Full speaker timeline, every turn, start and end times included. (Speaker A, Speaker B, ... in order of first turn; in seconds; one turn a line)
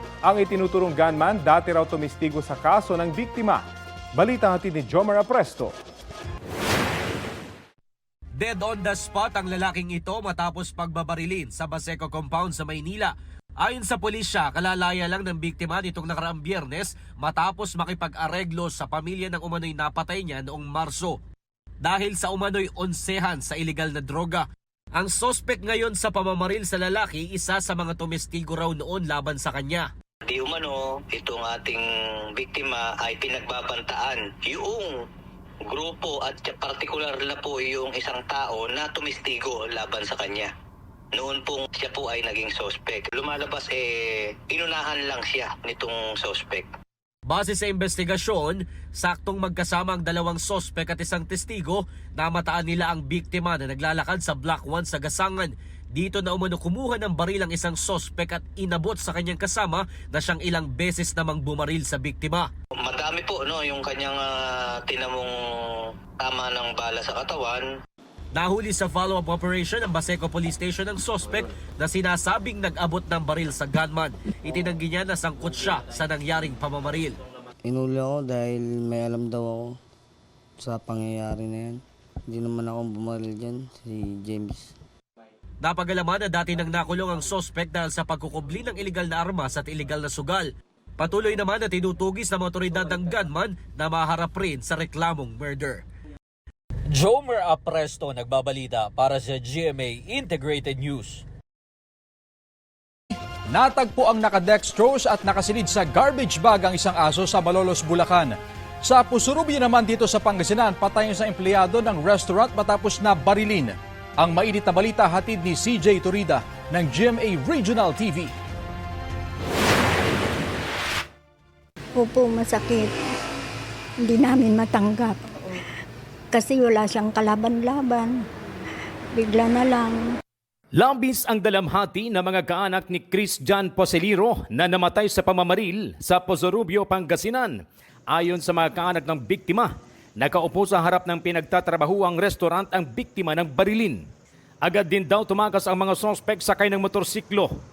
Speaker A: 0.2-3.6
Speaker A: 4.2-5.7
Speaker B: 8.4-21.2
Speaker B: 21.8-24.4
Speaker B: 25.0-29.9
Speaker C: 30.3-31.8
Speaker C: 32.4-34.9
Speaker C: 35.7-40.5
Speaker C: 41.2-43.8
Speaker C: 44.5-46.7
Speaker B: 47.3-62.5
Speaker C: 62.9-64.3
Speaker C: 64.9-65.3
Speaker C: 66.2-67.6
Speaker B: 68.3-77.2
Speaker D: 77.7-79.7
Speaker D: 80.6-84.6
Speaker B: 85.6-95.8
Speaker E: 97.1-99.8
Speaker E: 100.3-100.8
Speaker F: 103.5-118.3
Speaker G: 122.0-123.0
Speaker G: 124.0-125.6
Speaker G: 126.3-128.2
Speaker G: 129.1-130.0
Speaker H: 130.7-137.6
Speaker H: 138.1-144.0
Speaker H: 144.6-147.5